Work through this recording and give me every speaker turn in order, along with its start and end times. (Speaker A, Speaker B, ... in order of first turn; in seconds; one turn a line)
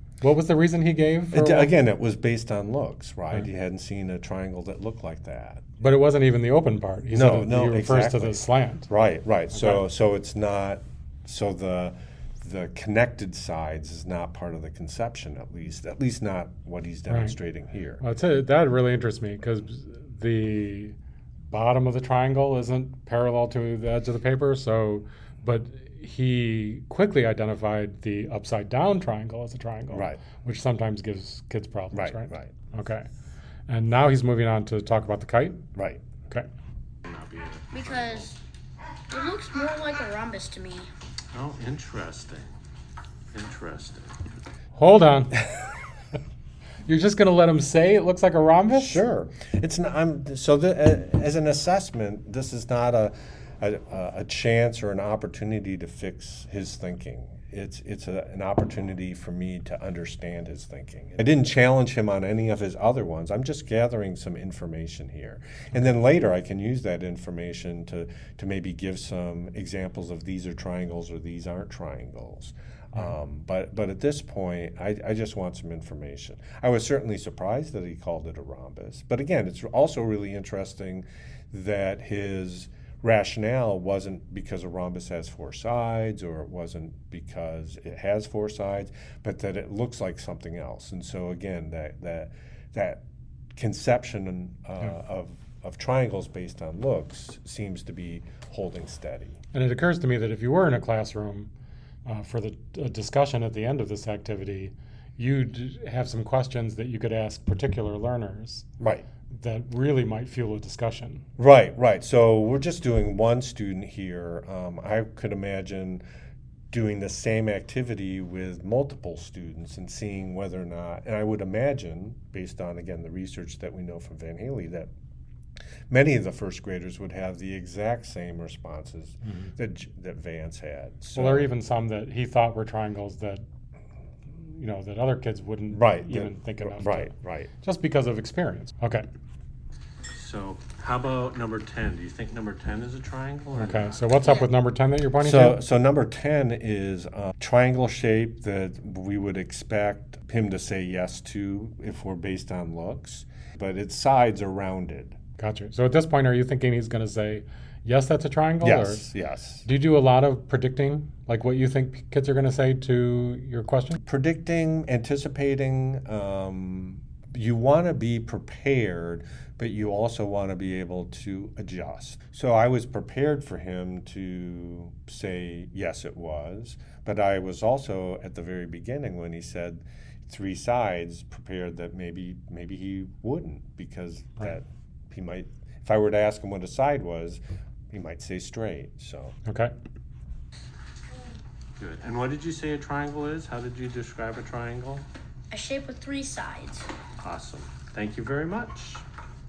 Speaker A: 0.2-1.7
Speaker B: 1.3-5.6
Speaker A: 5.8-8.9
Speaker B: 7.1-18.0
Speaker A: 9.5-9.8
Speaker A: 17.1-17.4
Speaker A: 18.0-21.0
Speaker A: 21.5-33.1
Speaker B: 29.9-30.2
Speaker B: 31.9-32.5
Speaker A: 33.7-35.7
Speaker B: 35.8-36.0
Speaker C: 37.0-38.4
Speaker D: 37.7-38.3
Speaker D: 39.1-40.9
Speaker C: 41.3-42.5
Speaker C: 43.3-44.1
Speaker A: 44.7-45.4
Speaker A: 46.9-49.0
Speaker B: 48.7-93.0
Speaker B: 93.6-99.4
Speaker A: 99.5-101.5
Speaker A: 102.0-108.7
Speaker B: 108.8-109.1
Speaker A: 109.3-111.2
Speaker B: 111.4-116.0
Speaker B: 116.7-124.9
Speaker B: 125.9-131.5
Speaker A: 131.2-133.4
Speaker A: 134.3-139.1
Speaker B: 135.7-137.5
Speaker C: 140.1-144.0
Speaker A: 143.6-145.6
Speaker B: 145.2-155.2
Speaker A: 155.4-159.1
Speaker B: 158.6-159.7
Speaker A: 159.6-164.0
Speaker B: 164.0-189.4
Speaker A: 189.4-189.7
Speaker C: 191.8-195.1
Speaker D: 195.5-196.9
Speaker C: 197.2-199.0